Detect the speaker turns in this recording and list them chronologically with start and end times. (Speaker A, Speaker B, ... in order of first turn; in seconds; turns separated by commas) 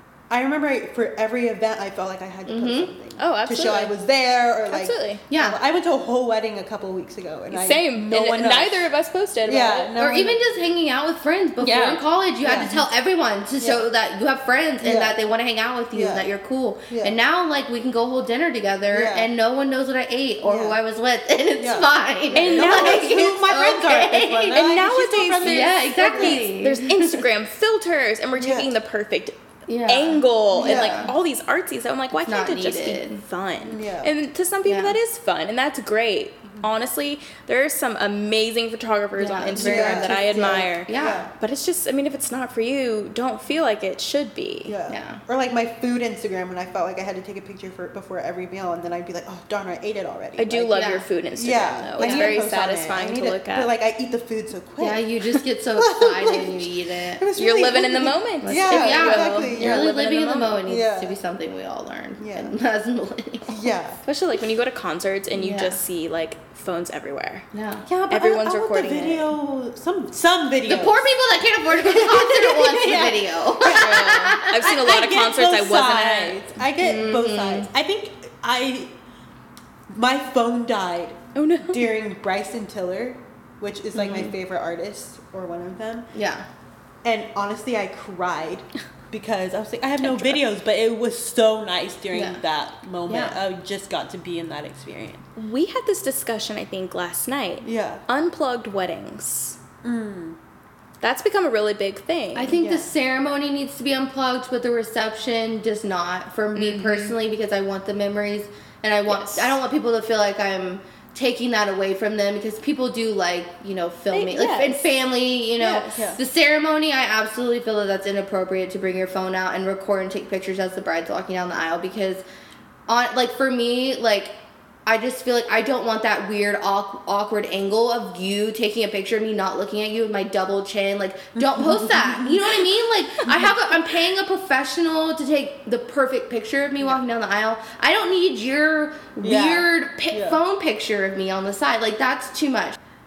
Speaker A: 0.3-8.9, Speaker B: 2.5-2.9, Speaker C: 3.2-3.9, Speaker C: 4.7-5.2, Speaker B: 5.3-5.6, Speaker C: 7.5-9.9, Speaker A: 9.4-10.4, Speaker B: 10.0-24.7, Speaker C: 11.6-12.0, Speaker A: 12.4-12.7, Speaker C: 12.6-12.8, Speaker A: 13.6-13.9, Speaker A: 14.8-15.2, Speaker A: 15.9-16.3, Speaker A: 16.9-17.1, Speaker A: 18.9-19.3, Speaker A: 20.4-20.8, Speaker A: 21.6-26.5, Speaker C: 22.3-23.2, Speaker C: 24.5-44.7, Speaker B: 25.4-27.2, Speaker A: 28.4-28.7, Speaker B: 29.7-31.1, Speaker A: 30.5-31.1, Speaker B: 32.2-33.2, Speaker A: 33.6-34.1, Speaker B: 34.6-35.0, Speaker B: 39.2-41.2, Speaker A: 39.5-41.3, Speaker A: 44.7-50.8, Speaker B: 44.9-45.2, Speaker C: 50.4-53.7, Speaker B: 50.7-51.0, Speaker A: 51.4-55.1, Speaker B: 52.0-52.4, Speaker B: 54.8-57.2, Speaker A: 55.7-59.9, Speaker C: 57.4-60.5, Speaker B: 58.4-63.7, Speaker A: 60.6-61.1, Speaker A: 62.2-62.5, Speaker A: 63.5-64.0, Speaker C: 64.0-67.5, Speaker B: 65.3-65.8, Speaker B: 67.5-67.8, Speaker A: 67.8-71.1, Speaker C: 68.1-69.3, Speaker B: 70.6-74.7, Speaker A: 71.7-78.9, Speaker C: 73.7-76.5, Speaker B: 76.8-77.7, Speaker A: 79.9-86.1, Speaker C: 81.3-81.9, Speaker B: 83.9-84.3, Speaker B: 86.1-86.5, Speaker A: 87.0-95.2, Speaker C: 90.0-90.4, Speaker B: 92.1-92.4, Speaker B: 93.1-93.4, Speaker C: 95.3-99.6, Speaker A: 97.6-98.0, Speaker A: 99.8-100.4, Speaker C: 101.0-102.6, Speaker B: 102.3-122.2, Speaker A: 102.6-102.9, Speaker C: 106.5-107.2, Speaker C: 109.1-109.5, Speaker C: 114.1-114.9, Speaker C: 115.6-116.0, Speaker B: 122.9-124.3, Speaker B: 124.8-142.8, Speaker A: 131.3-132.5, Speaker A: 133.2-133.5, Speaker A: 139.2-140.4